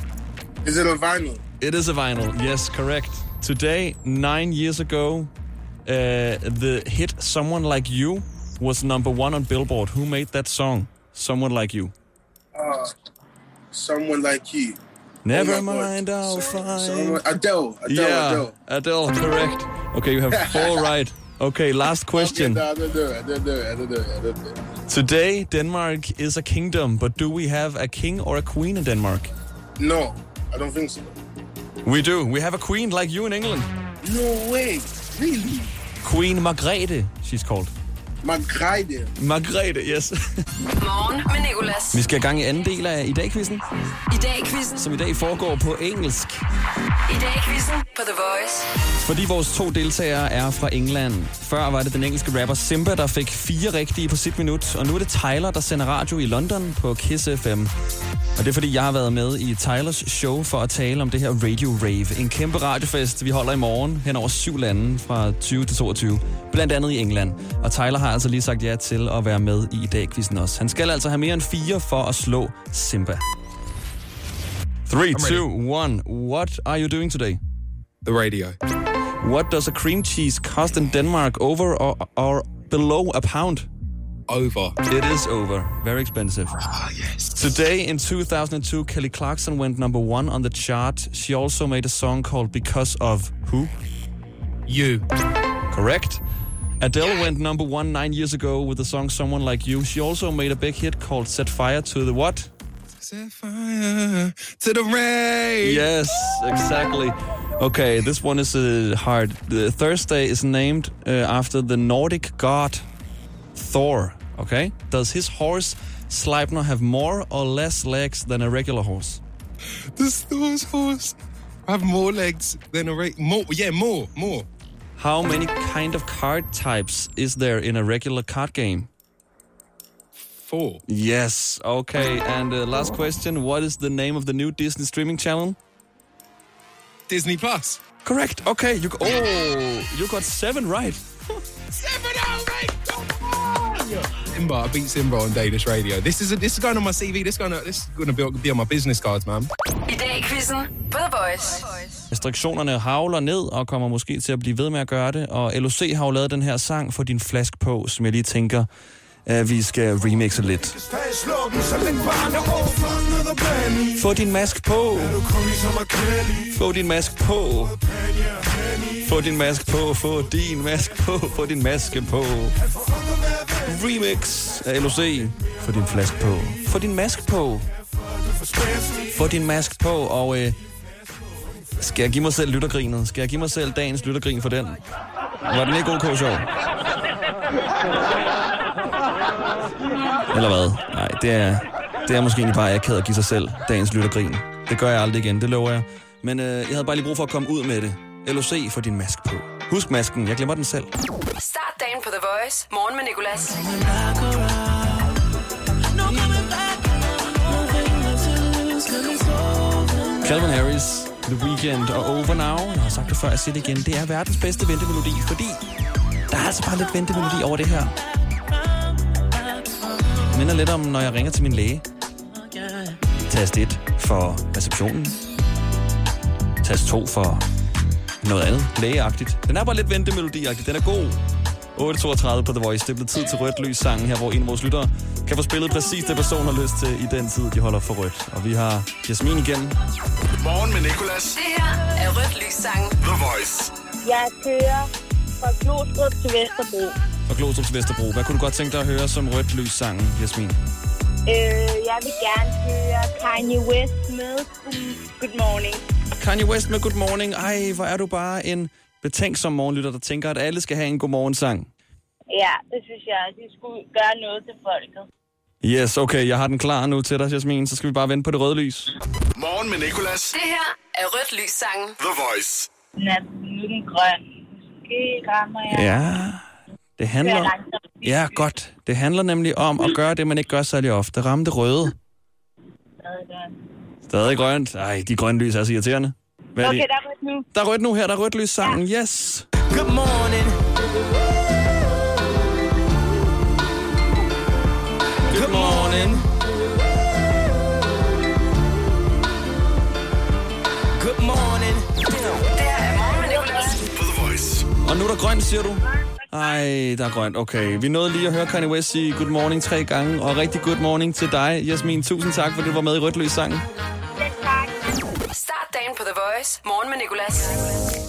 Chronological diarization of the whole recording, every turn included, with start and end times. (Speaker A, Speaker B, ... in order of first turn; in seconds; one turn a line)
Speaker A: 0.6-1.4
Speaker B: 1.6-5.3
Speaker B: 5.8-11.9
Speaker A: 12.5-12.9
Speaker A: 13.7-14.8
Speaker B: 15.2-17.2
Speaker A: 15.3-18.5
Speaker B: 17.9-22.6
Speaker A: 20.3-20.9
Speaker A: 22.1-24.6
Speaker B: 24.9-29.3
Speaker A: 29.8-31.1
Speaker B: 31.8-33.7
Speaker A: 34.0-35.5
Speaker B: 36.0-37.7
Speaker A: 38.2-39.1
Speaker B: 39.2-40.4
Speaker C: 40.8-42.0
Speaker B: 41.9-43.6
Speaker C: 44.1-44.8
Speaker B: 44.8-46.4
Speaker C: 47.1-48.7
Speaker B: 49.0-57.7
Speaker B: 58.4-73.2
Speaker B: 74.9-77.4
Speaker D: 75.1-75.4
Speaker D: 78.0-78.5
Speaker B: 79.2-83.7
Speaker D: 84.3-84.7
Speaker B: 84.8-86.6
Speaker E: 86.8-87.1
Speaker B: 87.3-93.7
Speaker D: 94.7-95.0
Speaker B: 95.7-96.2
Speaker B: 96.8-102.5
Speaker D: 103.0-105.8
Speaker B: 105.6-112.8
Speaker B: 113.5-119.2
Speaker D: 119.9-124.5
Speaker B: 125.0-128.9
Speaker D: 130.3-130.8
Speaker B: 130.9-135.6
Speaker D: 137.1-137.8
Speaker B: 138.0-141.1
Speaker D: 141.7-143.0
Speaker D: 143.9-149.5
Speaker C: 149.8-152.0
Speaker B: 152.1-158.7
Speaker B: 159.2-160.8
Speaker B: 163.9-165.3
Speaker B: 166.4-167.8
Speaker B: 169.0-172.6
Speaker B: 173.6-177.7
Speaker B: 179.0-180.6
Speaker B: 181.8-184.8
Speaker B: 185.4-186.5
Speaker B: 190.3-200.9
Speaker C: 201.4-203.6
Speaker E: 203.9-204.5
Speaker E: 206.0-206.9
Speaker E: 207.5-210.0
Speaker B: 210.2-215.6
Speaker B: 216.3-217.9
Speaker B: 220.3-221.8
Speaker B: 223.2-225.2
Speaker B: 226.6-227.4
Speaker B: 228.2-231.2
Speaker B: 231.8-239.7
Speaker F: 240.4-241.4
Speaker C: 241.3-243.0
Speaker F: 243.0-243.7
Speaker G: 244.0-244.9
Speaker G: 245.4-246.9
Speaker B: 247.3-250.6
Speaker G: 251.2-255.8
Speaker B: 256.2-261.7
Speaker G: 262.3-265.1
Speaker B: 265.6-268.9
Speaker F: 269.4-270.3
Speaker C: 270.3-271.9
Speaker F: 272.0-272.7
Speaker G: 273.0-276.1
Speaker B: 275.7-276.4
Speaker B: 277.0-281.9
Speaker G: 277.2-278.5
Speaker G: 283.0-283.5
Speaker B: 284.1-286.8
Speaker G: 286.6-287.4
Speaker B: 287.5-289.5
Speaker E: 289.7-290.6
Speaker B: 295.3-296.3
Speaker E: 295.3-296.1
Speaker E: 300.9-302.3
Speaker C: 302.5-303.8
Speaker G: 303.2-303.8
Speaker F: 303.9-304.7
Speaker B: 304.8-313.6
Speaker G: 306.1-306.6
Speaker G: 314.2-314.8
Speaker C: 315.3-317.5